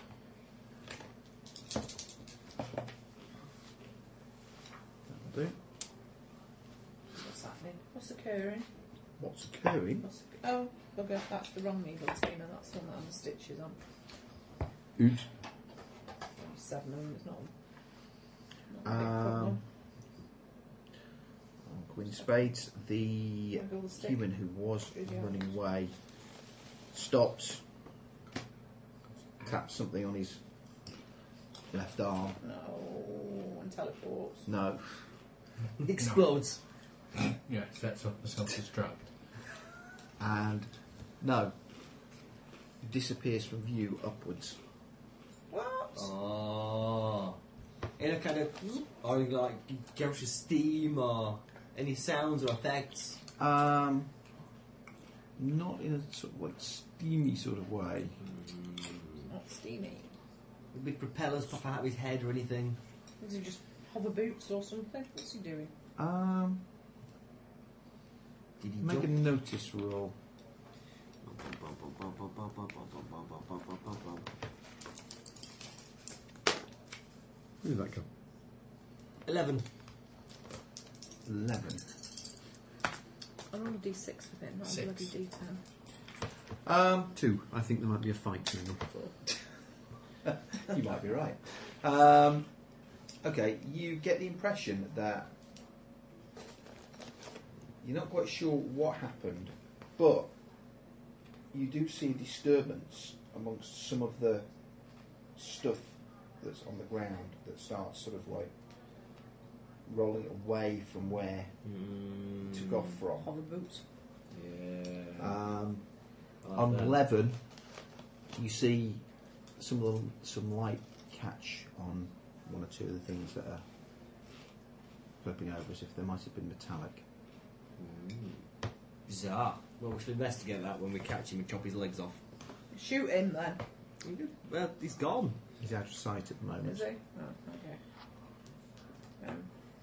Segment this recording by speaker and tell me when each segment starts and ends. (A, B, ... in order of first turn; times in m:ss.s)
0:05.1-0:05.6 A
0:07.1-0:08.7 B
0:09.2-0:10.1 A
0:10.0-0:13.8 B
0:15.0-0:15.2 A
0:16.4-0:17.5 B
0:18.7-0:19.6 B
0:18.8-0:19.6 A
0:21.6-0:25.9 A
0:23.5-0:24.2 B
0:24.9-0:25.4 B
0:26.9-0:27.6 A
0:29.4-0:30.4 A
0:31.7-0:32.4 A
0:32.4-0:34.4 B
0:34.4-0:35.0 A
0:35.8-0:36.6 C
0:35.9-0:36.3 D
0:37.3-0:39.0 D
0:40.2-0:41.6 A
0:42.8-0:44.6 A
0:45.5-0:46.1 B
0:45.9-0:47.4 C
0:48.0-0:53.2 C
0:53.4-0:54.1 A
0:55.4-0:58.2 A
0:58.2-0:59.3 C
0:59.3-1:00.1 B
1:00.7-1:02.8 C
1:03.2-1:05.7 B
1:06.0-1:06.6 A
1:08.6-1:09.1 C
1:08.8-1:10.2 A
1:11.2-1:14.3 C
1:17.6-1:18.0 E
1:19.2-1:19.6 C
1:21.2-1:21.8 A
1:23.5-1:25.6 B
1:24.7-1:25.1 D
1:26.6-1:27.2 A
1:27.1-1:28.9 E
1:30.2-1:35.4 A
1:37.8-1:40.3 A
1:41.5-1:48.5 A
1:49.8-1:51.6 A
1:51.6-1:52.9 C
1:52.5-1:53.3 A
1:53.2-1:53.8 B
1:54.3-1:55.4 C
1:55.2-1:57.8 A
1:56.4-1:57.0 C
1:58.3-2:03.6 A
2:05.2-2:07.0 A
2:07.8-2:08.4 C
2:09.0-2:12.2 C
2:12.7-2:13.6 B
2:14.0-2:15.4 C
2:15.6-2:16.9 A
2:16.6-2:17.8 B
2:19.2-2:19.5 B